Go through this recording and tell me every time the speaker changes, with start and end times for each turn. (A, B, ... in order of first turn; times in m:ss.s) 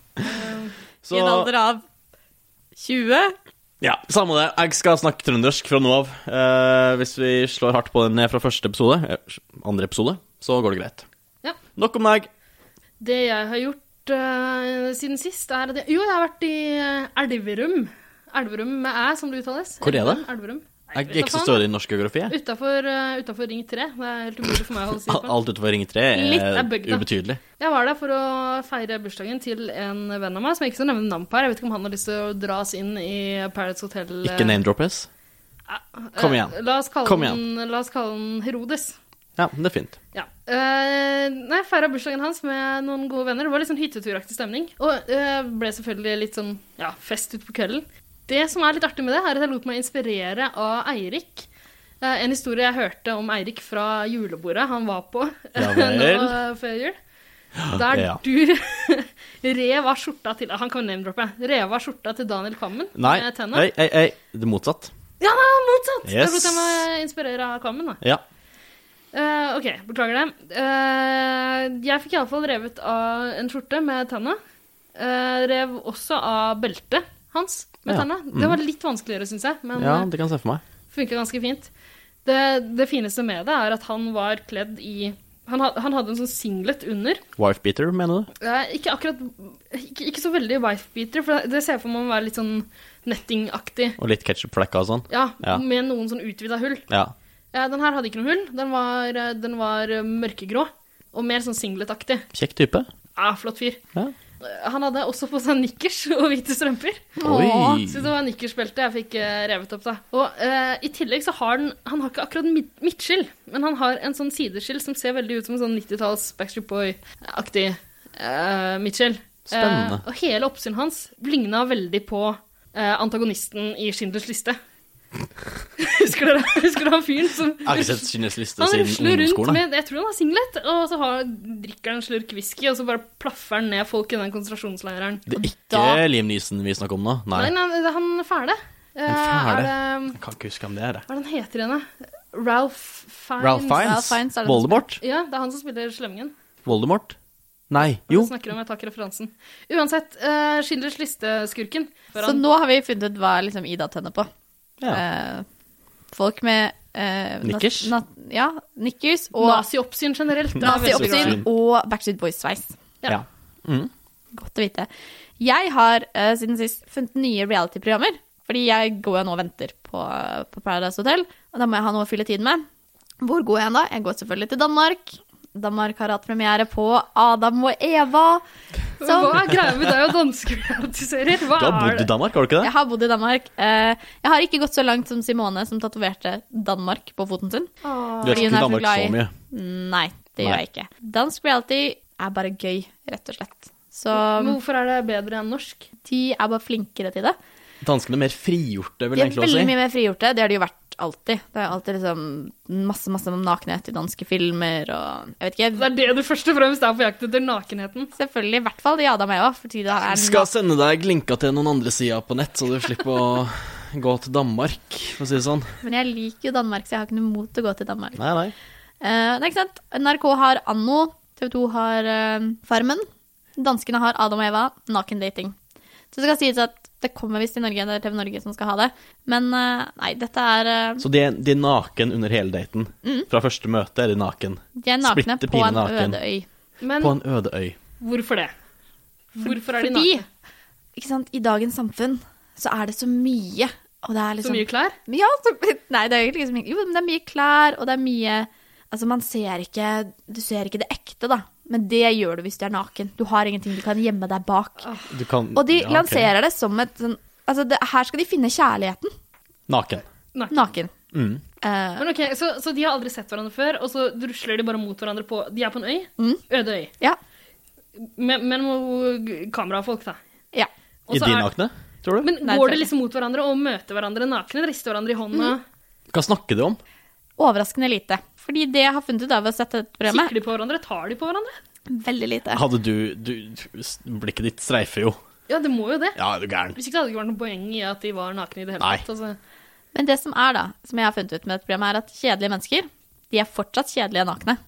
0:00.2-0:00.7 A
0:01.0-0:01.5 B
0:01.1-0:01.8 C
0:02.8-0:03.4 C
0:03.8-0:11.0 B
0:11.7-0:12.3 B
0:13.0-0:21.6 A
0:19.8-0:20.2 B
0:20.9-0:22.3 B
0:22.3-0:25.3 A
0:25.1-0:27.4 B
0:26.2-0:26.5 C
0:26.4-0:27.0 A
0:27.6-0:34.6 A
0:34.2-0:35.1 B
0:35.7-0:39.0 A
0:36.2-0:37.4 B
0:39.4-0:40.0 B
0:40.1-0:51.5 A
0:52.0-0:57.0 A
0:55.6-0:56.4 B
0:57.6-0:58.2 B
0:57.7-1:03.7 A
1:03.0-1:04.9 B
1:05.2-1:08.0 A
1:06.0-1:06.8 B
1:09.1-1:14.4 A
1:15.0-1:20.1 A
1:17.9-1:18.6 B
1:19.8-1:20.6 B
1:20.9-1:21.7 A
1:22.2-1:27.2 A
1:27.4-1:28.3 B
1:28.4-1:34.0 A
1:34.0-1:35.6 B
1:35.1-1:36.8 A
1:36.9-1:37.1 B
1:37.5-1:42.2 A
1:42.3-1:42.9 B
1:43.2-1:43.8 A
1:44.4-1:47.2 A
1:47.2-1:48.1 B
1:47.2-1:47.8 C
1:47.8-2:04.6 A
1:59.5-2:00.0 B
2:05.8-2:15.3 A
2:07.6-2:09.6 B
2:15.3-2:17.5 B
2:15.4-2:16.0 C
2:17.3-2:20.2 A
2:19.0-2:21.0 B
2:21.1-2:23.9 A
2:23.4-2:25.0 B
2:23.8-2:24.8 C
2:25.0-2:26.3 A
2:26.6-2:27.2 B
2:27.7-2:28.3 B
2:28.1-2:32.4 A
2:32.2-2:34.3 C
2:34.9-2:35.4 C
2:36.1-2:39.6 C
2:37.4-2:37.9 B
2:39.4-2:41.4 A
2:40.6-2:42.8 C
2:40.6-2:41.4 B
2:43.1-2:43.9 B
2:44.3-2:44.9 C
2:45.4-2:52.7 C
2:53.2-2:58.4 C
2:59.0-3:02.1 A
2:59.0-2:59.4 C
3:01.5-3:02.7 B
3:02.6-3:07.7 C
3:07.8-3:08.6 A
3:08.2-3:09.3 B
3:08.2-3:14.6 C
3:14.1-3:15.8 A
3:16.0-3:17.4 C
3:17.8-3:19.7 B
3:19.2-3:25.9 C
3:25.8-3:28.1 A
3:28.2-3:30.5 C
3:30.0-3:35.8 B
3:35.8-3:38.2 C
3:38.2-3:38.5 B
3:39.0-3:45.6 C
3:46.1-3:51.0 C
3:51.0-3:56.2 B
3:53.0-3:53.3 C
3:54.8-3:56.4 C
3:56.8-3:57.1 A
3:57.0-3:57.8 B
3:58.0-3:58.5 A
3:59.3-4:00.2 A
3:59.4-4:00.2 C
4:01.0-4:14.9 C
4:04.4-4:05.0 A
4:14.8-4:15.1 A
4:15.1-4:16.3 B
4:15.5-4:19.1 C
4:19.7-4:20.0 B
4:20.5-4:20.9 C
4:21.1-4:21.4 B
4:21.6-4:22.1 C
4:22.0-4:26.9 A
4:28.0-4:30.2 A
4:31.1-4:31.5 A
4:31.1-4:32.3 B
4:32.2-4:35.6 A
4:32.4-4:32.9 C
4:36.1-4:36.8 B
4:37.4-4:40.3 C
4:40.1-4:41.6 A
4:41.9-4:42.6 C
4:42.5-4:45.2 B
4:45.5-4:46.2 A
4:46.2-4:46.8 B
4:46.7-4:49.4 A
4:49.9-4:54.6 C